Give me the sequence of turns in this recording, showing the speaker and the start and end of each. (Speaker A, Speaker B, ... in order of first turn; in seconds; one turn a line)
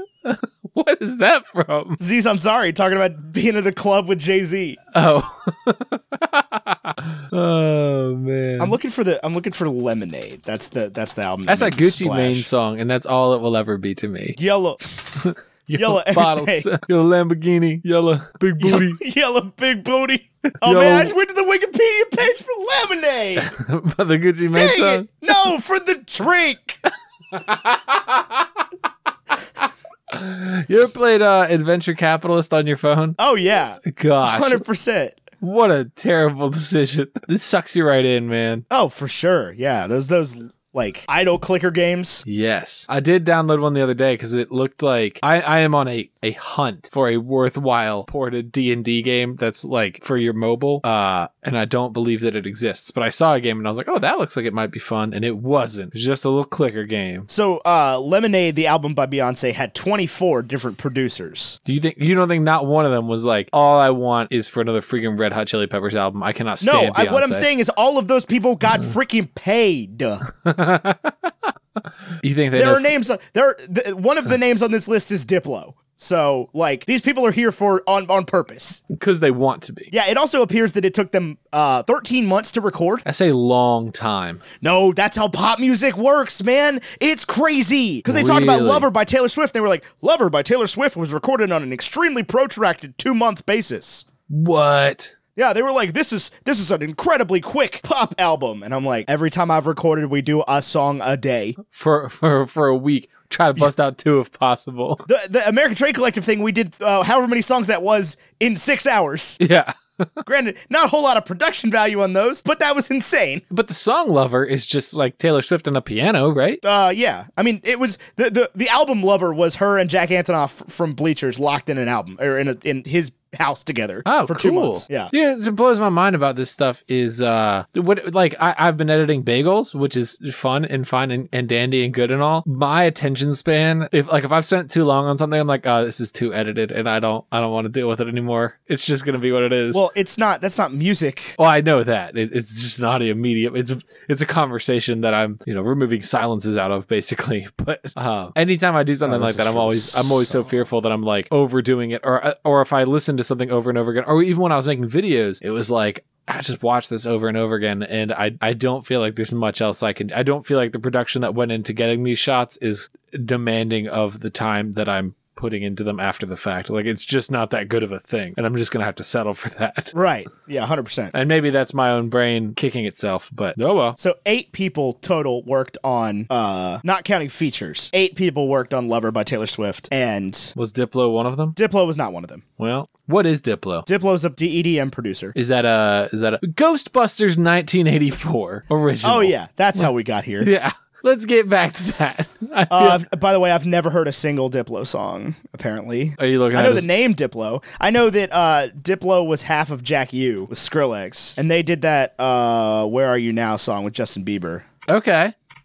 Speaker A: 0.2-2.0
Speaker B: 2.0-4.8
Speaker A: 4.9-8.8
Speaker B: 8.6-12.5
Speaker A: 11.5-14.4
Speaker B: 14.4-14.9
Speaker A: 15.2-19.0
Speaker B: 15.7-16.7
Speaker B: 18.6-23.5
Speaker A: 20.5-21.1
Speaker A: 23.4-25.1
Speaker B: 24.5-26.8
Speaker A: 27.3-28.5
Speaker A: 30.1-33.2
Speaker B: 33.2-35.2
Speaker A: 33.8-34.6
Speaker A: 35.4-38.6
Speaker B: 38.7-42.2
Speaker A: 42.2-57.3
Speaker B: 57.3-61.6
Speaker A: 61.6-67.5
Speaker B: 66.6-70.2
Speaker A: 70.3-71.3
Speaker A: 72.2-72.9
Speaker B: 72.5-78.8
Speaker A: 78.9-79.9
Speaker B: 79.9-83.0
Speaker A: 83.0-84.4
Speaker B: 84.6-94.0
Speaker A: 88.0-88.9
Speaker A: 94.3-95.1
Speaker B: 95.3-101.5
Speaker A: 101.6-105.0
Speaker B: 105.1-109.4
Speaker A: 109.4-110.2
Speaker B: 110.2-113.4
Speaker A: 113.5-116.6
Speaker B: 116.6-125.1
Speaker A: 124.0-139.8
Speaker B: 139.7-141.4
Speaker A: 141.4-169.9
Speaker B: 149.0-150.7
Speaker B: 169.9-171.1
Speaker A: 171.1-174.0
Speaker B: 174.0-180.5
Speaker A: 180.5-181.6
Speaker B: 181.6-182.4
Speaker A: 182.6-183.9
Speaker B: 183.9-185.3
Speaker A: 185.3-189.9
Speaker B: 189.0-190.5
Speaker A: 190.4-193.0
Speaker B: 192.7-204.6
Speaker A: 196.2-196.9
Speaker A: 204.9-205.3